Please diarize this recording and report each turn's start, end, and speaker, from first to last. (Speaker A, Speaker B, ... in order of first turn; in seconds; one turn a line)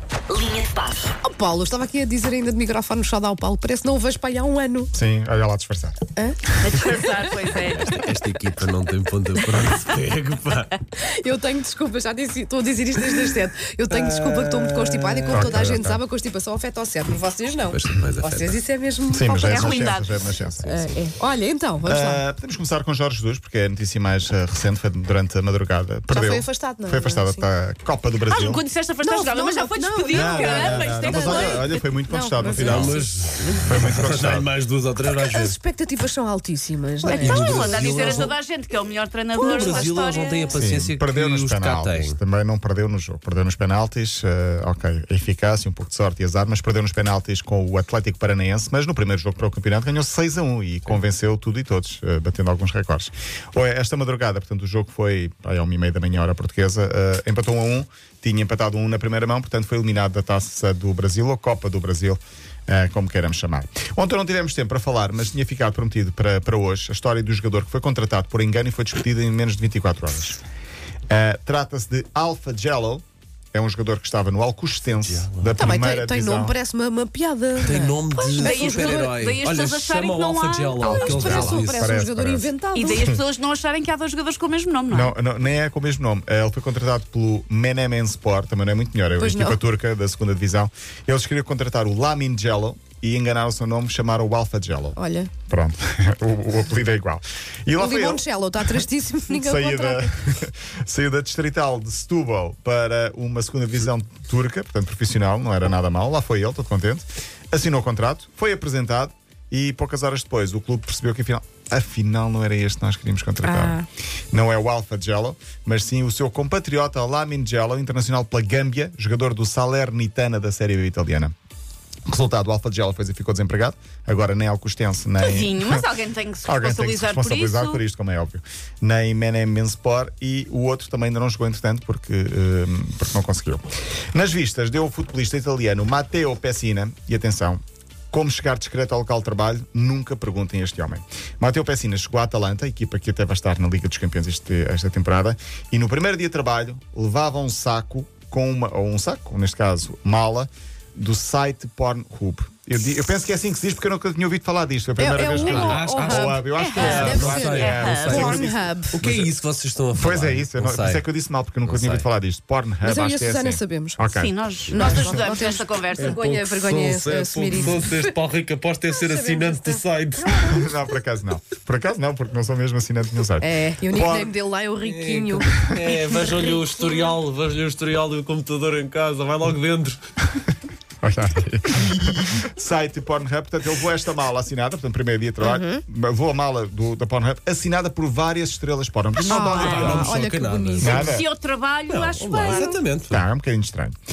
Speaker A: 1.1-4.9
Speaker B: 4.9-6.0
Speaker A: 6.2-8.0
Speaker C: 6.6-8.0
Speaker D: 7.7-10.8
Speaker A: 11.0-19.9
Speaker D: 13.9-15.7
Speaker B: 15.3-16.0
Speaker D: 17.7-18.6
Speaker B: 19.1-21.0
Speaker C: 19.4-20.1
Speaker A: 20.6-22.2
Speaker B: 21.8-28.6
Speaker A: 26.1-27.5
Speaker C: 28.3-31.8
Speaker A: 29.0-33.1
Speaker B: 30.1-33.0
Speaker D: 32.5-35.5
Speaker B: 33.6-34.5
Speaker A: 35.3-38.3
Speaker D: 37.0-38.3
Speaker C: 37.0-40.6
Speaker D: 39.3-42.2
Speaker A: 39.4-40.5
Speaker B: 40.5-70.4
Speaker B: 71.1-76.6
Speaker D: 74.9-75.5
Speaker A: 75.5-79.1
Speaker D: 77.6-81.9
Speaker C: 78.3-81.4
Speaker B: 80.8-83.2
Speaker A: 80.9-83.1
Speaker C: 82.7-85.2
Speaker B: 84.9-121.3
Speaker A: 89.2-89.6
Speaker A: 94.9-95.3
Speaker A: 97.8-100.1
Speaker A: 113.4-113.8
Speaker B: 122.1-125.9
Speaker C: 125.2-127.8
Speaker B: 126.4-137.6
Speaker B: 138.1-159.3
Speaker A: 155.0-159.0
Speaker D: 155.3-158.4
Speaker C: 156.6-158.5
Speaker D: 158.9-161.0
Speaker B: 159.9-165.4
Speaker D: 161.6-162.1
Speaker A: 162.8-164.0
Speaker C: 164.2-166.2
Speaker A: 164.7-168.2
Speaker D: 166.0-170.4
Speaker A: 168.9-170.6
Speaker B: 170.4-174.3
Speaker A: 173.4-177.1
Speaker D: 174.8-180.0
Speaker B: 181.0-190.2
Speaker D: 181.8-182.4
Speaker A: 185.4-185.8
Speaker A: 189.3-191.1
Speaker D: 189.3-191.1
Speaker C: 189.6-190.1
Speaker B: 190.8-191.3
Speaker C: 190.8-192.8
Speaker D: 191.9-193.2
Speaker A: 192.2-192.8
Speaker B: 193.1-193.9